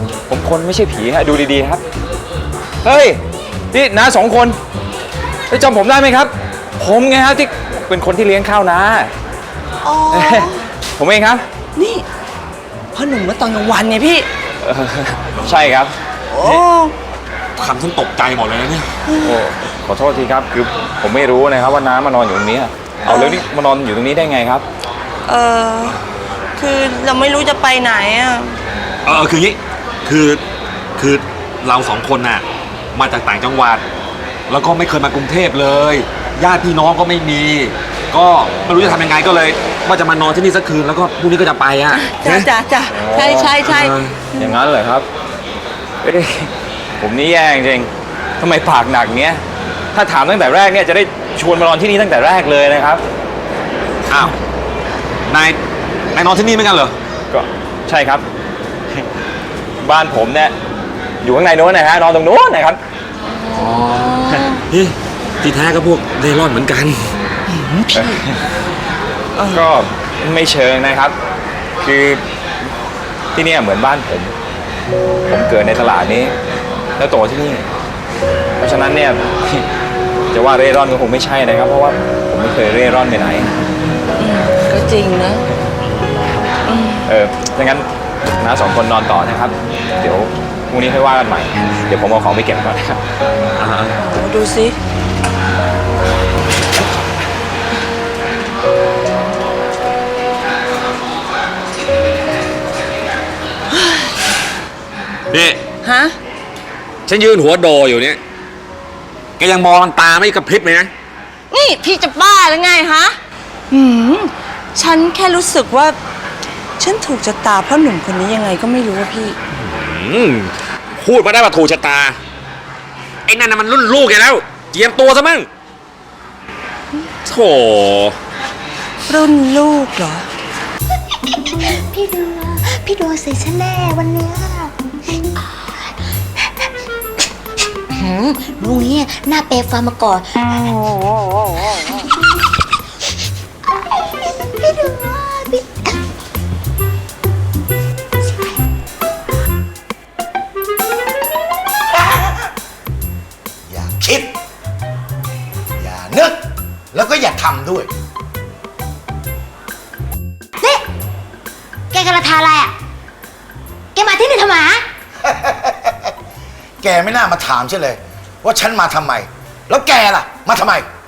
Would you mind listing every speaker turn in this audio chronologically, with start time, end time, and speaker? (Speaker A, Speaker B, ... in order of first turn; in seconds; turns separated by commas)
Speaker A: 0.3-1.8, Speaker A: 2.8-3.2, Speaker A: 3.7-4.6, Speaker A: 5.5-9.1, Speaker B: 9.8-10.6, Speaker A: 10.1-11.5, Speaker B: 11.8-12.0, Speaker B: 12.9-14.3, Speaker A: 14.6-15.9, Speaker B: 16.4-16.9, Speaker C: 17.6-18.9, Speaker A: 19.2-24.6, Speaker B: 23.1-23.4, Speaker B: 25.2-26.0, Speaker B: 26.6-28.6, Speaker C: 29.1-30.4, Speaker C: 31.0-33.8, Speaker C: 34.5-42.4, Speaker B: 42.0-44.5, Speaker A: 42.9-43.6, Speaker C: 43.9-44.1, Speaker A: 44.4-45.1, Speaker A: 46.0-49.4, Speaker A: 49.9-53.0, Speaker C: 55.3-55.6, Speaker C: 56.1-56.9, Speaker A: 57.3-58.2, Speaker A: 59.8-60.5, Speaker A: 61.2-62.8, Speaker B: 63.4-64.6, Speaker C: 64.7-67.1, Speaker B: 67.5-67.9, Speaker A: 67.9-68.4, Speaker A: 69.5-71.2, Speaker A: 71.8-72.2, Speaker A: 73.3-74.3, Speaker A: 75.3-76.3, Speaker A: 77.0-77.7, Speaker A: 78.6-79.7, Speaker A: 80.3-83.5, Speaker B: 84.2-85.4, Speaker B: 86.7-87.0, Speaker A: 87.0-93.0, Speaker C: 93.5-93.9, Speaker B: 94.0-94.8, Speaker B: 103.7-104.1, Speaker C: 105.3-105.6, Speaker B: 105.8-106.2, Speaker C: 107.1-108.2, Speaker C: 109.4-110.9, Speaker B: 111.5-113.2, Speaker B: 113.7-116.0, Speaker B: 116.8-119.4, Speaker C: 119.7-120.5, Speaker C: 121.0-122.1, Speaker C: 123.3-125.5, Speaker C: 127.3-128.1, Speaker B: 129.1-130.3, Speaker D: 131.3-135.9, Speaker D: 137.9-141.0, Speaker D: 141.7-142.0, Speaker D: 143.7-145.9, Speaker E: 153.7-154.4, Speaker E: 155.8-157.9, Speaker D: 160.6-160.8, Speaker D: 161.9-162.7, Speaker D: 163.9-164.8, Speaker E: 165.2-165.9, Speaker E: 166.8-170.8